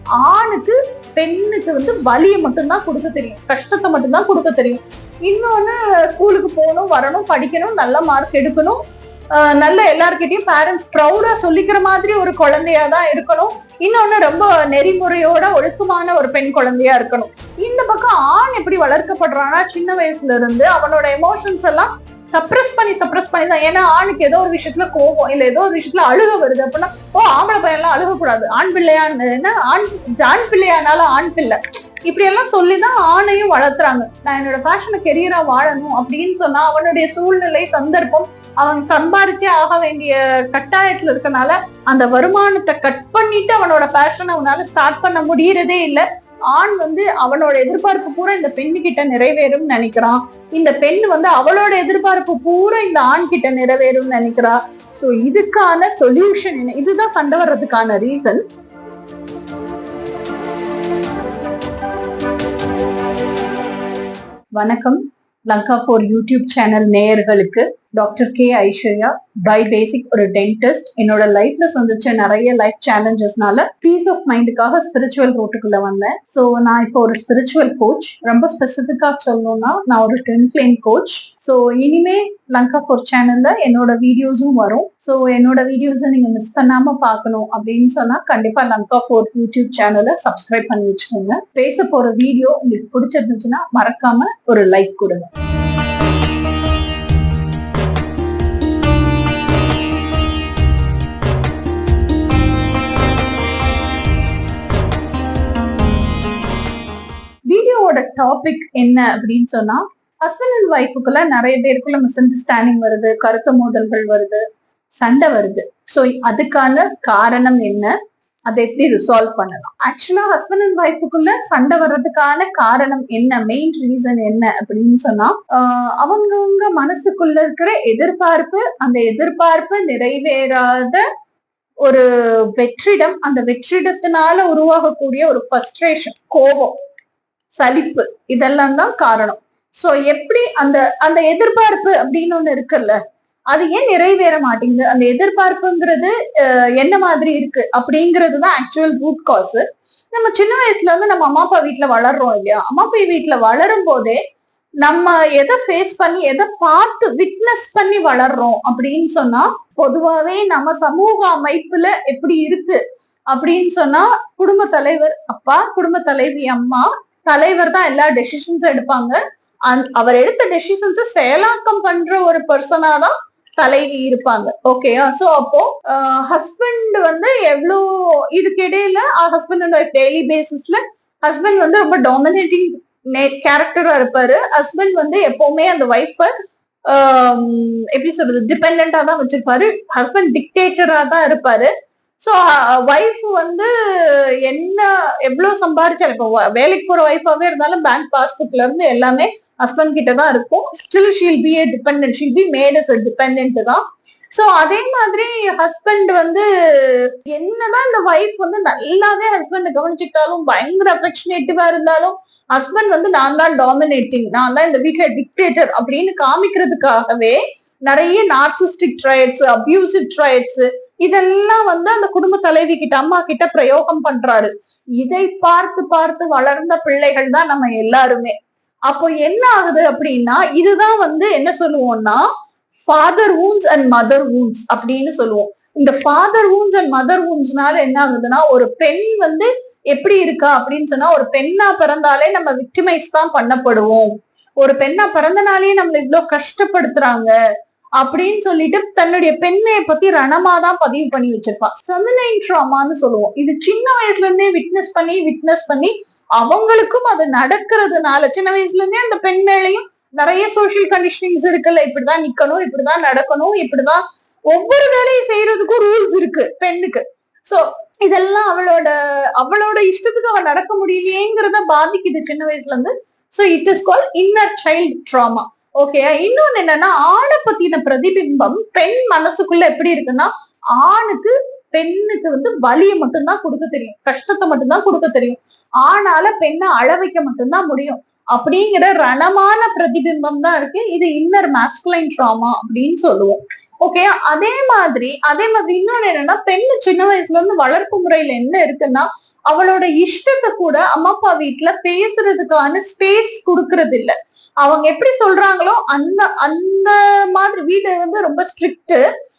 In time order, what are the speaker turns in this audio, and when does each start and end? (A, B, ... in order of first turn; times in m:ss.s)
0:00.2-0:08.8 A
0:09.3-0:58.4 A
1:04.6-1:35.3 A
1:47.5-1:54.4 A
1:55.0-1:57.9 A
1:58.5-2:11.0 A
2:11.8-2:16.8 A
2:17.6-2:23.0 A
2:23.5-2:34.2 A
2:34.8-2:42.8 A
2:43.3-3:06.3 A
3:06.9-3:23.8 A
3:24.3-3:48.4 A
3:48.9-3:52.2 A
3:52.9-4:07.4 A
4:08.0-5:09.0 A